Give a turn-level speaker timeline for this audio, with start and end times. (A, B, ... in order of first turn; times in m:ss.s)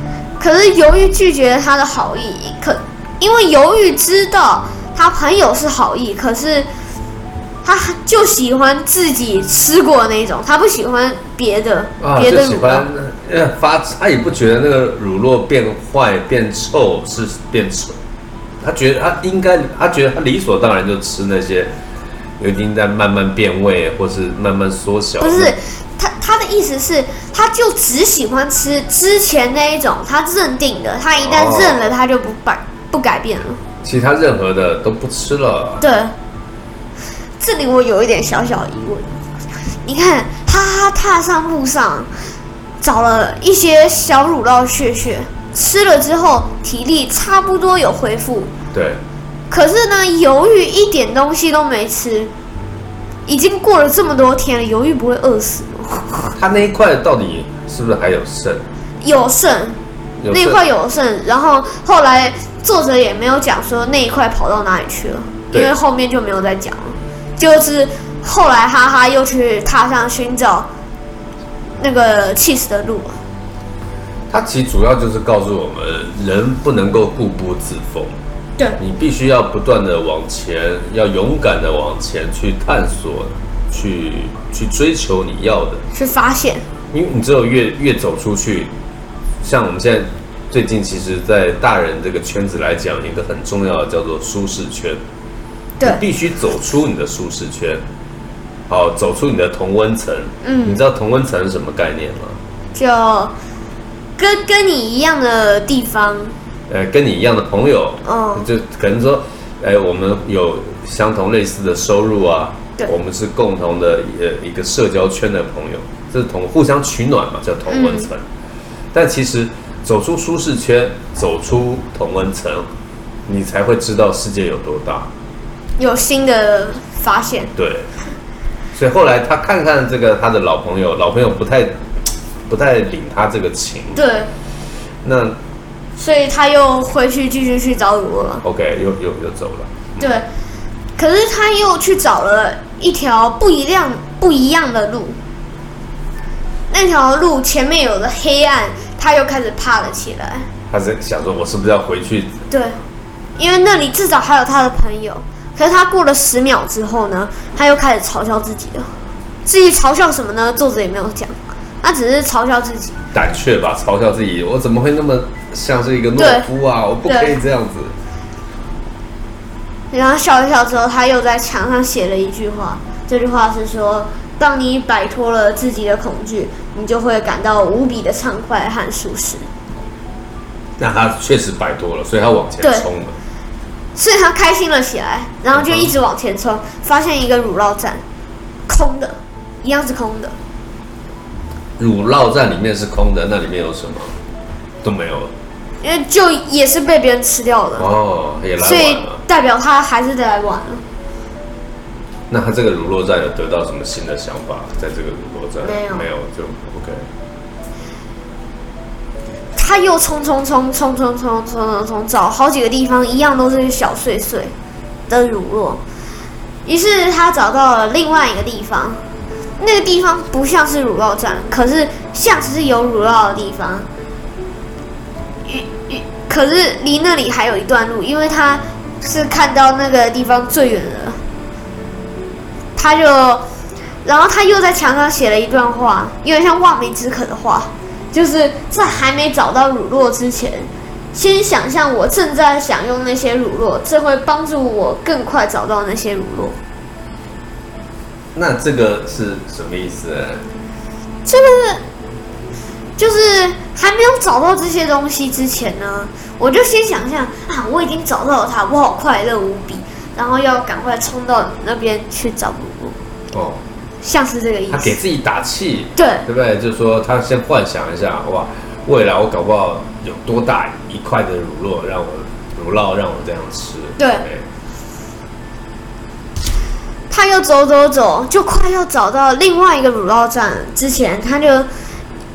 0:00.4-0:06.7 A
0:07.6-0:12.9 A
0:12.0-0:18.0 B
0:18.6-0:21.7 B
0:22.4-0:25.5 B
0:25.2-0:33.6 A
0:31.2-0:31.9 B
0:33.8-0:35.8 B
0:35.8-0:36.1 A
0:37.4-0:42.1 A
0:42.8-0:48.5 A
0:48.7-0:49.0 B
0:49.5-0:52.3 A
0:53.3-0:56.4 A
0:56.4-0:58.6 B
0:59.0-0:59.8 A
1:00.2-1:00.6 B
1:00.3-1:10.7 A
1:11.8-1:13.2 A
1:14.3-1:18.1 B
1:18.8-1:25.8 B
1:25.9-1:26.6 A
1:26.9-1:28.7 B
1:29.4-1:35.0 B
1:35.8-1:37.8 B
1:38.7-1:42.4 B
1:40.4-1:40.8 A
1:42.7-1:43.3 A
1:44.2-1:46.3 A
1:46.7-1:58.3 B
1:48.0-1:48.4 A
1:57.7-1:58.1 A
1:58.9-2:02.7 B
2:03.2-2:05.1 B
2:05.8-2:07.5 A
2:07.6-2:07.9 B
2:08.7-2:11.8 B
2:12.5-2:14.1 B
2:13.9-2:14.3 A
2:15.0-2:15.4 B
2:16.0-2:18.4 A
2:18.4-2:20.1 B
2:20.0-2:20.3 A
2:21.0-2:25.2 A
2:26.7-2:30.5 A
2:30.7-2:32.4 B
2:32.5-2:32.8 A
2:33.4-2:38.9 A
2:39.4-2:43.0 A
2:43.1-2:47.9 B
2:46.2-2:46.5 A
2:47.0-2:47.3 A
2:49.9-2:59.5 A
3:00.8-3:03.2 B
3:02.6-3:02.8 A
3:04.0-3:08.0 A
3:05.5-3:05.9 B
3:08.7-3:10.4 A
3:11.8-3:14.2 B
3:14.8-3:15.3 B
3:15.8-3:17.9 A
3:17.8-3:19.2 B
3:18.6-3:20.8 A
3:22.3-3:27.1 B
3:25.6-3:26.1 A
3:29.5-3:34.5 A
3:35.1-3:35.8 A
3:36.6-3:39.0 A
3:39.6-3:43.9 A
3:45.4-3:51.2 A
3:52.8-3:53.4 A
3:54.0-4:06.6 A
4:08.3-4:10.4 B
4:11.2-4:11.8 A
4:13.0-4:23.0 A
4:23.3-4:23.6 B
4:24.0-4:25.0 A
4:24.7-4:34.4 B
4:26.0-4:26.2 A
4:34.0-4:34.2 A
4:37.1-4:41.7 A